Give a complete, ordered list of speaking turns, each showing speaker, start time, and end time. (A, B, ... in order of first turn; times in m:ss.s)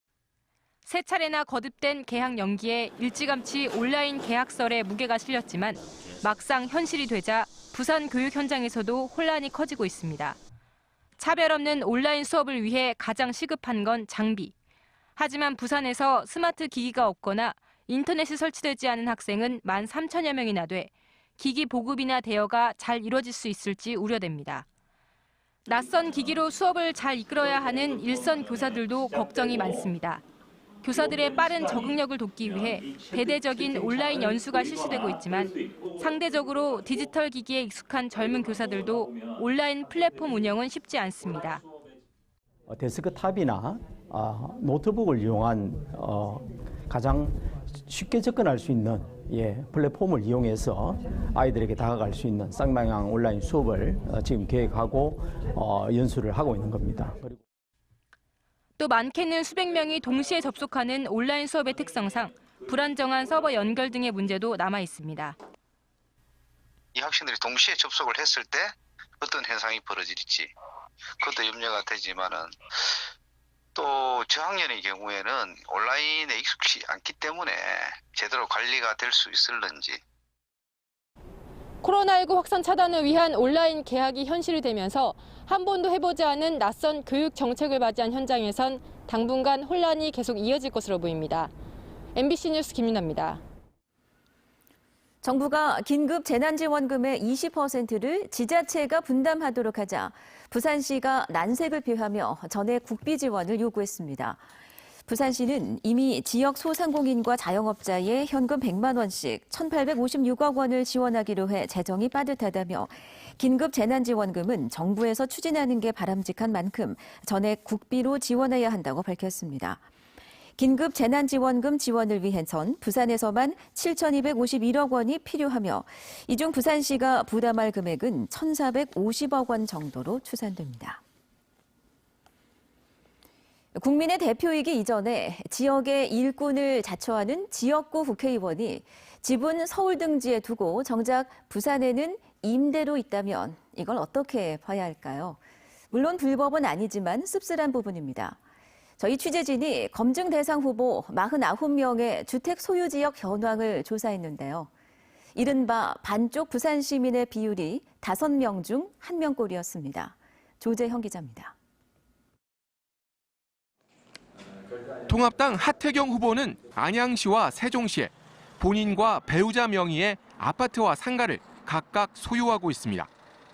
0:00.9-0:10.4 A
0:11.2-0:14.5 A
0:15.2-0:24.7 A
0:25.6-0:30.2 A
0:30.8-0:41.6 A
0:42.7-0:57.4 B
0:58.8-1:05.4 A
1:07.0-1:10.5 C
1:11.2-1:12.6 C
1:13.8-1:20.0 C
1:21.8-1:31.5 A
1:32.2-1:33.4 A
1:35.2-1:44.4 D
1:45.1-1:59.8 D
2:00.6-2:11.0 D
2:13.8-2:25.4 D
2:25.9-2:28.4 D
2:29.0-2:34.7 D
2:35.4-2:41.5 D
2:45.1-2:53.1 E